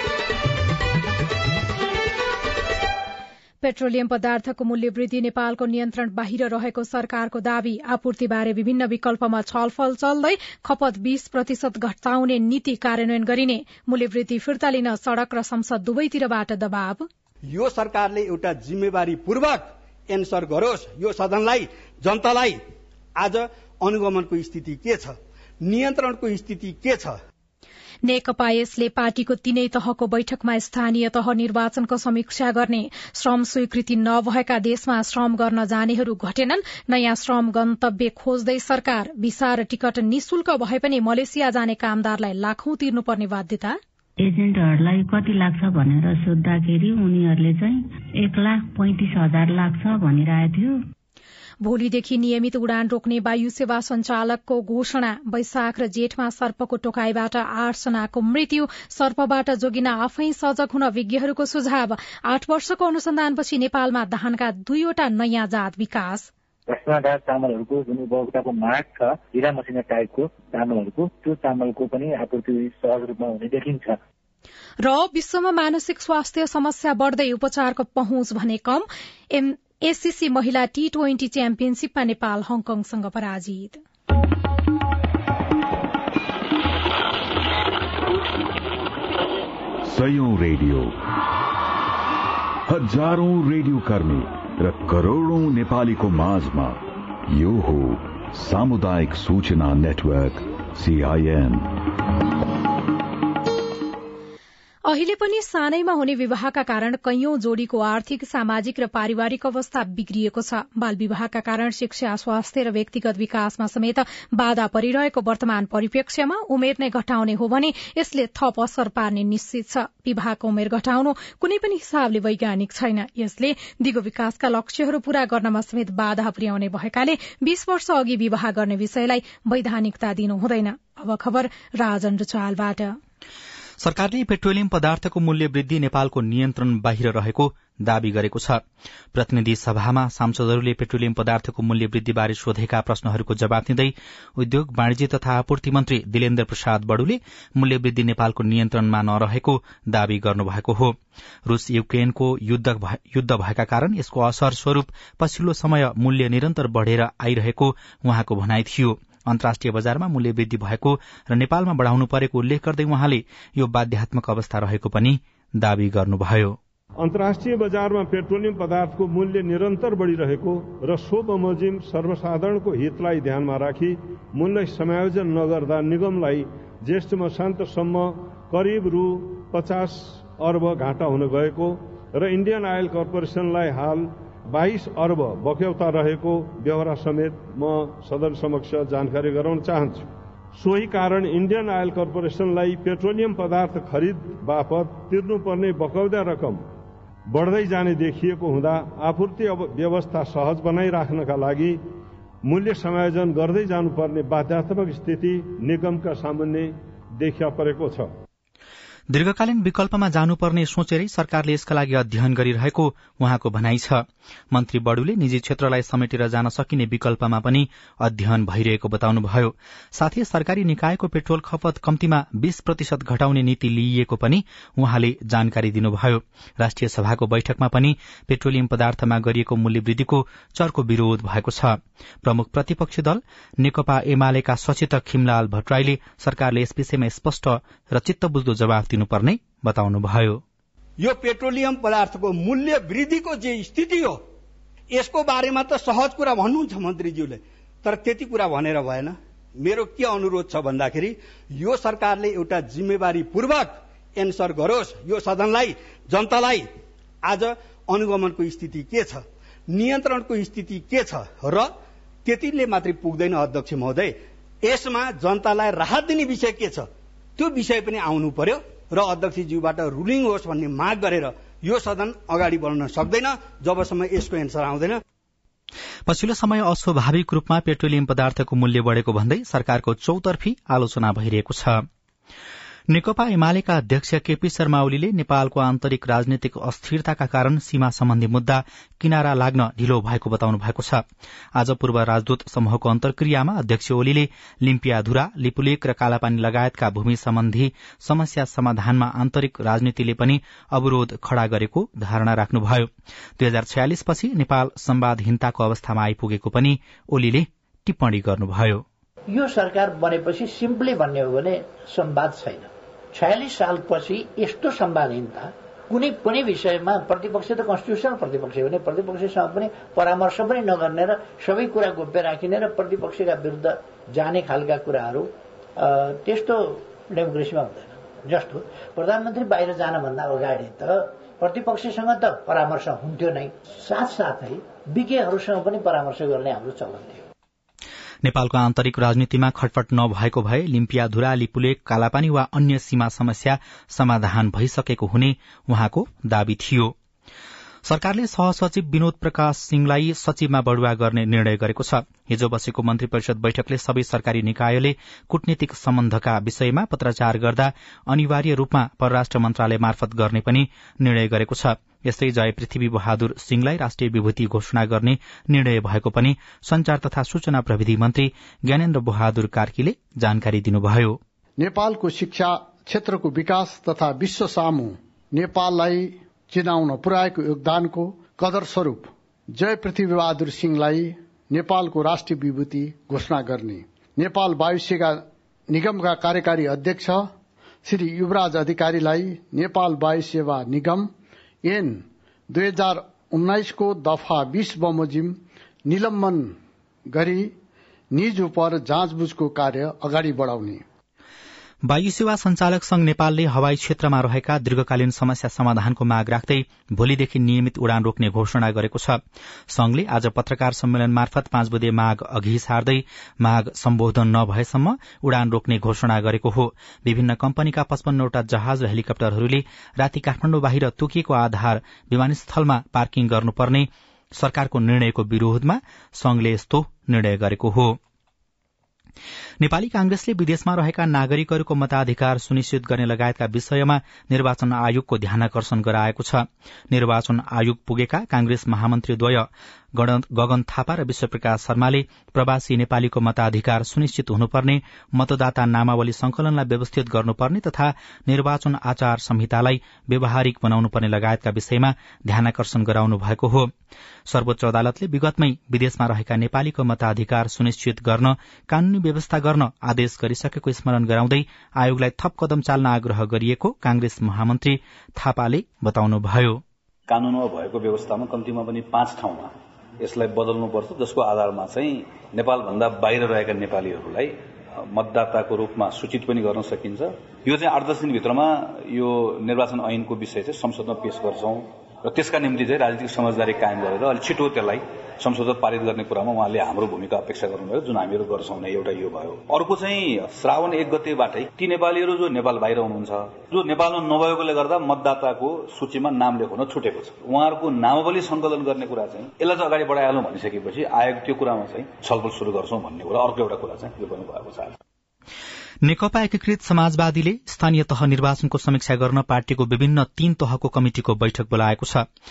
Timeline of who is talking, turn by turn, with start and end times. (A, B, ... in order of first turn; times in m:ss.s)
0:03.6-0:17.1 A
0:17.5-0:22.6 B
0:23.2-0:27.2 B
0:28.1-0:43.8 A
0:44.2-0:50.8 C
0:51.6-1:06.3 A
1:06.7-1:14.0 D
1:14.8-1:23.8 A
1:29.8-1:31.0 E
1:32.7-1:41.7 E
1:44.9-2:13.0 A
2:13.8-2:18.6 F
2:19.1-2:46.6 F
2:47.0-3:16.6 G
3:17.3-3:21.8 G
3:22.5-3:28.1 G
3:29.1-4:00.4 F
4:01.0-4:04.2 B
4:04.9-4:16.7 B
4:17.3-4:21.7 B
4:22.2-4:35.0 B
4:36.1-4:41.8 F
4:42.9-4:51.0 F
4:51.6-5:08.8 F
5:09.3-5:37.2 H
5:38.2-5:46.9 F
5:47.9-6:11.2 F
6:11.6-6:27.3 I
6:27.8-6:31.1 I
6:31.6-6:36.6 I
6:37.1-6:37.5 I
6:38.1-6:40.8 I
6:41.9-7:08.0 F
7:09.6-7:33.7 F
7:34.3-7:46.6 F
7:47.1-8:24.8 J
8:25.8-8:32.1 F